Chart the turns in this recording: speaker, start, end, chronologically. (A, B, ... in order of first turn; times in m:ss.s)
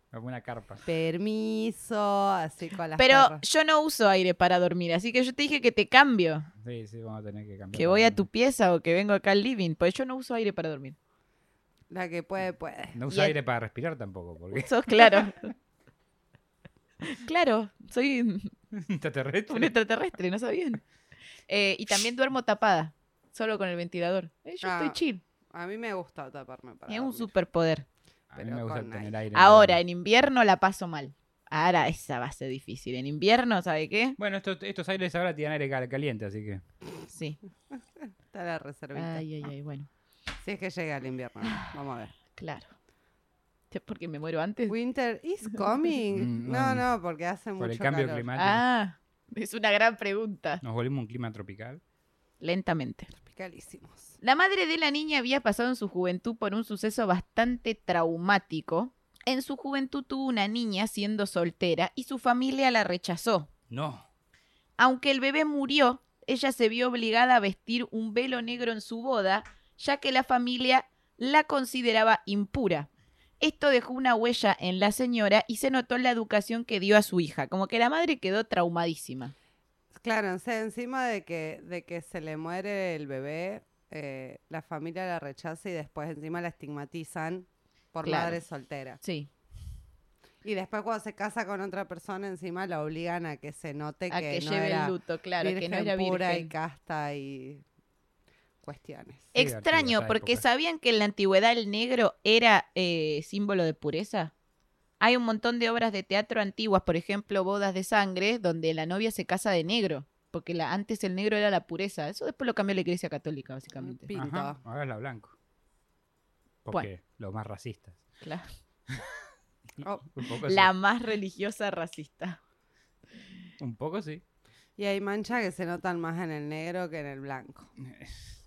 0:00.1-0:00.8 A
0:00.8-0:03.4 B
0:03.0-0:06.5 C
0:06.6-0:08.2 A
0:07.7-0:11.0 C
0:11.9-0:13.0 B
0:12.9-0:14.7 A
0:14.5-0:15.5 C
0:17.0-0:18.5 C
0:18.7-0:19.7 A
0:19.5-0:20.8 C
0:21.5-0:25.2 C
0:24.6-0:25.0 B
0:25.5-0:27.3 B
0:26.9-0:27.8 C
0:28.3-0:29.8 A
0:28.4-0:29.1 B
0:29.3-0:34.2 C
0:34.2-0:36.6 A
0:37.1-0:37.4 C
0:38.3-0:39.2 B
0:38.9-0:39.9 C
0:40.4-0:42.1 B
0:42.4-0:42.7 C
0:43.7-0:44.8 C
0:44.7-0:48.3 B
0:46.1-0:46.9 A
0:47.6-0:48.6 A
0:48.4-0:50.6 C
0:50.6-0:51.8 A
0:52.4-0:53.1 C
0:53.1-0:54.2 B
0:54.2-1:03.5 C
1:03.7-1:04.1 A
1:04.8-1:12.9 C
1:13.4-1:19.3 C
1:20.0-1:29.0 B
1:28.0-1:28.4 C
1:29.0-1:29.3 C
1:30.4-1:37.6 B
1:34.1-1:36.5 C
1:38.6-1:39.3 B
1:39.3-1:44.3 C
1:39.4-1:40.4 A
1:45.0-1:54.1 C
1:53.8-1:54.6 B
1:54.1-1:55.3 A
1:56.6-1:58.0 A
1:58.2-1:58.5 C
1:59.8-2:00.7 A
2:00.4-2:02.4 C
2:03.6-2:04.2 A
2:04.8-2:07.7 B
2:07.8-2:08.3 A